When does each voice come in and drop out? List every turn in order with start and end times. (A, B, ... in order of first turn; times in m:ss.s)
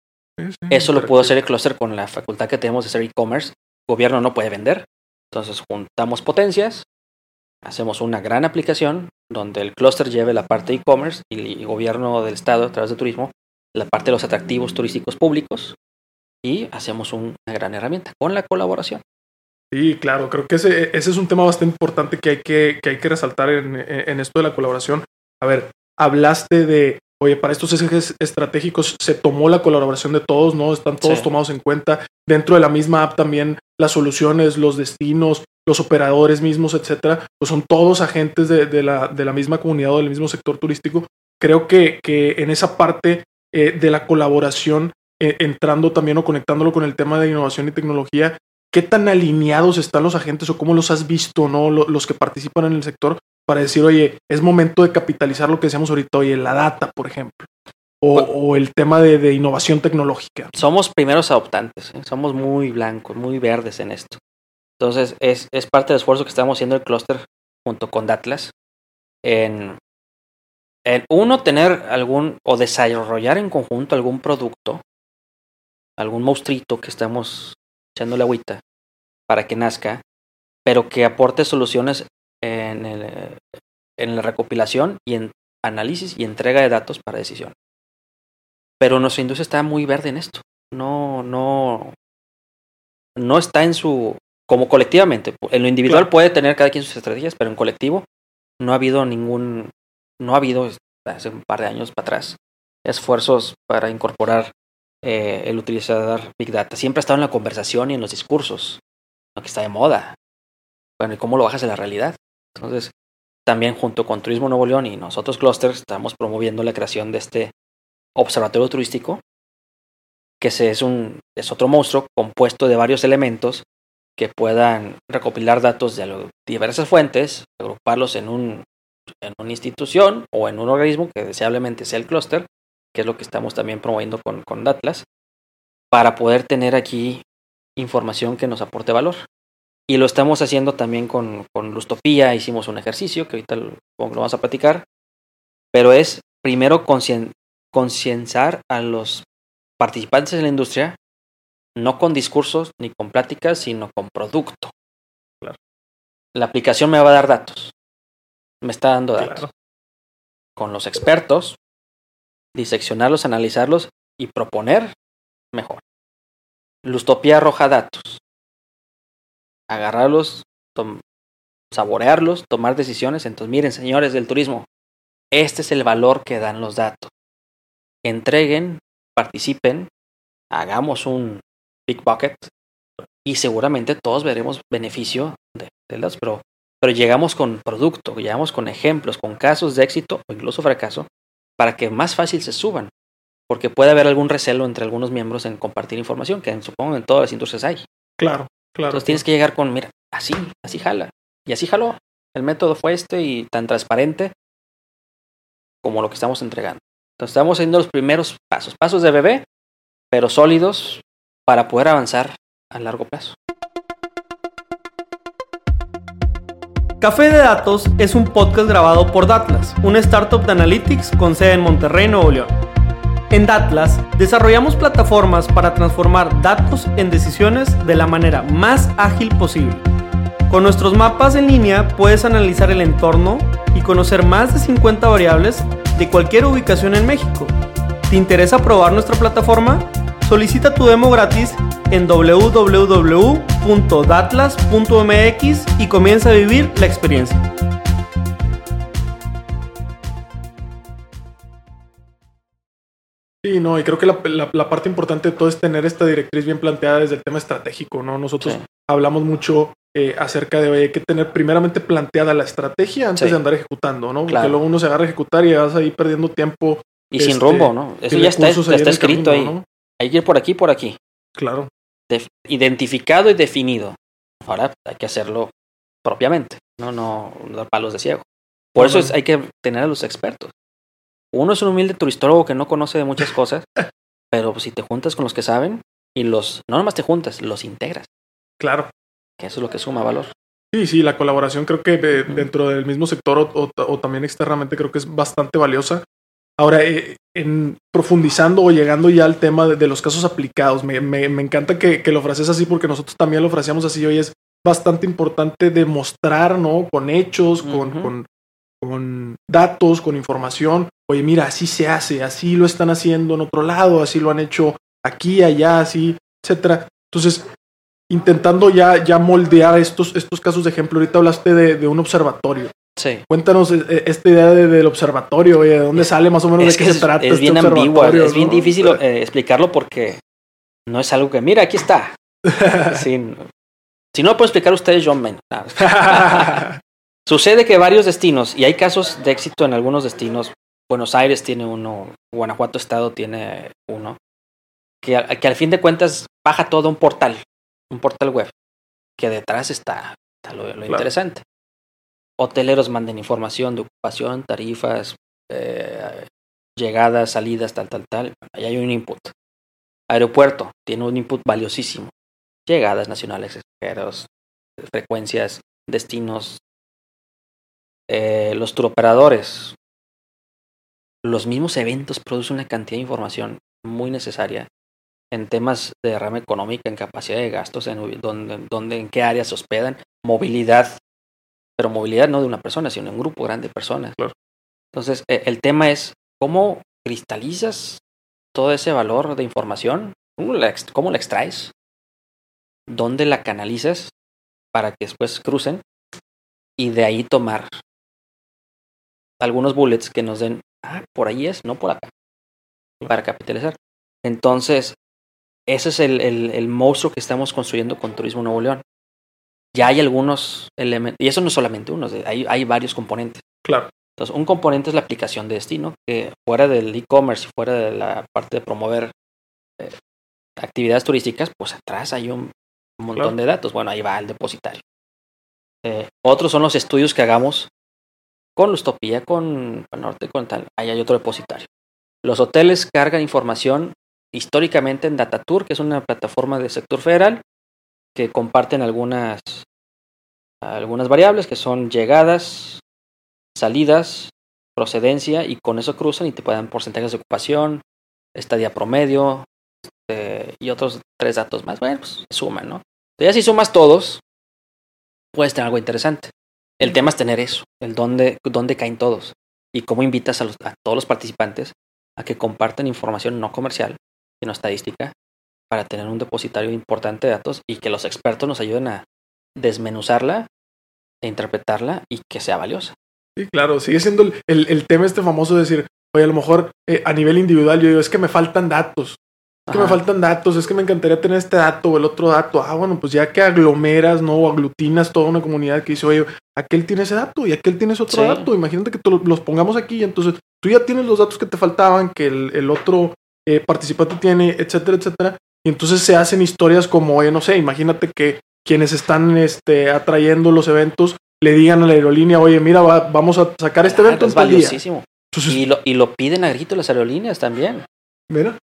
0:00.4-0:01.3 A
0:00.7-0:06.8 B
0:07.6-0:15.8 B
0:16.4-0:19.0 B
0:19.7-0:57.5 A
0:31.0-0:31.3 B
0:58.0-1:00.5 A
1:00.5-1:04.2 B
1:04.8-1:08.5 B
1:09.2-1:09.8 B
1:10.8-1:14.8 B
1:16.0-1:18.6 B
1:19.3-1:20.0 B
1:20.6-1:23.4 B
1:24.0-1:27.5 B
1:28.8-1:31.9 B
1:33.2-1:38.0 B
1:38.6-1:44.5 B
1:45.0-1:48.8 B
1:49.4-1:50.2 B
1:51.0-1:52.9 B
1:53.4-1:57.5 B
1:58.2-1:59.2 B
2:00.4-2:03.6 B
2:04.2-2:08.6 B
2:09.2-2:15.0 B
2:15.9-2:17.2 B
2:17.8-2:19.2 B
2:19.9-2:24.8 B
2:25.7-2:29.2 B
2:29.8-2:31.0 B
2:31.8-2:34.7 B
2:36.3-2:37.7 B
2:38.6-2:39.5 B
2:39.2-2:39.5 A
2:40.6-2:41.6 B
2:42.5-2:44.9 B
2:45.5-2:45.8 B
2:46.8-2:48.2 B
2:49.7-2:51.0 B
2:51.7-2:54.6 B
2:55.3-2:57.1 B
2:58.0-2:59.9 B
3:00.5-3:02.5 B
3:03.2-3:11.1 B
3:11.6-3:12.9 B
3:13.5-3:17.8 B
3:18.2-3:19.2 A
3:18.9-3:24.3 B
3:25.8-3:29.4 B
3:30.1-3:33.4 B
3:37.0-3:42.5 C
3:43.3-3:49.8 C
3:50.5-3:57.5 C
3:58.1-4:07.4 C
4:13.4-4:29.6 A
4:24.3-4:24.6 B
4:27.1-4:31.0 B
4:31.4-4:31.7 A
4:32.1-4:35.5 B
4:36.0-4:40.5 B
4:38.8-4:39.1 A
4:41.3-4:43.7 B
4:44.3-4:48.1 B
4:48.6-4:48.9 A
4:49.4-4:50.3 B
4:50.7-4:56.0 A
4:56.6-5:08.2 A
5:07.6-5:08.1 B
5:08.8-5:17.4 A
5:18.1-5:22.7 A
5:23.0-5:23.2 B
5:23.3-5:29.0 A
5:26.0-5:30.2 B
5:30.9-5:33.4 B
5:32.6-5:32.9 A
5:34.1-5:36.6 B
5:35.8-5:36.8 A
5:37.2-5:44.2 B
5:45.0-5:48.5 B
5:49.2-5:51.4 B
5:52.4-5:59.3 B
6:00.1-6:02.1 B
6:02.7-6:04.3 B
6:04.8-6:06.6 B
6:08.1-6:09.8 B
6:11.2-6:14.7 B
6:15.3-6:21.0 B
6:21.8-6:24.2 B
6:24.9-6:28.0 B
6:28.5-6:31.7 B
6:32.9-6:34.1 B
6:34.7-6:35.8 B
6:36.8-6:37.8 B
6:39.4-6:42.1 B
6:43.1-6:45.0 B
6:45.7-6:48.8 B
6:49.7-6:53.4 B
6:54.2-6:59.1 B
7:00.6-7:04.8 B
7:05.8-7:07.7 B
7:08.6-7:11.7 B
7:12.2-7:17.4 B
7:18.2-7:19.6 B
7:20.6-7:22.8 B
7:23.5-7:27.8 B
7:28.3-7:34.2 B
7:35.3-7:45.1 B
7:45.7-7:49.0 B
7:49.6-7:50.5 B
7:51.2-7:52.9 B
7:53.4-7:59.2 A
7:59.7-8:00.0 B
7:59.7-8:24.8 A
8:08.1-8:08.5 B
8:23.8-8:27.8 B
8:25.3-8:25.6 A
8:28.3-8:28.6 A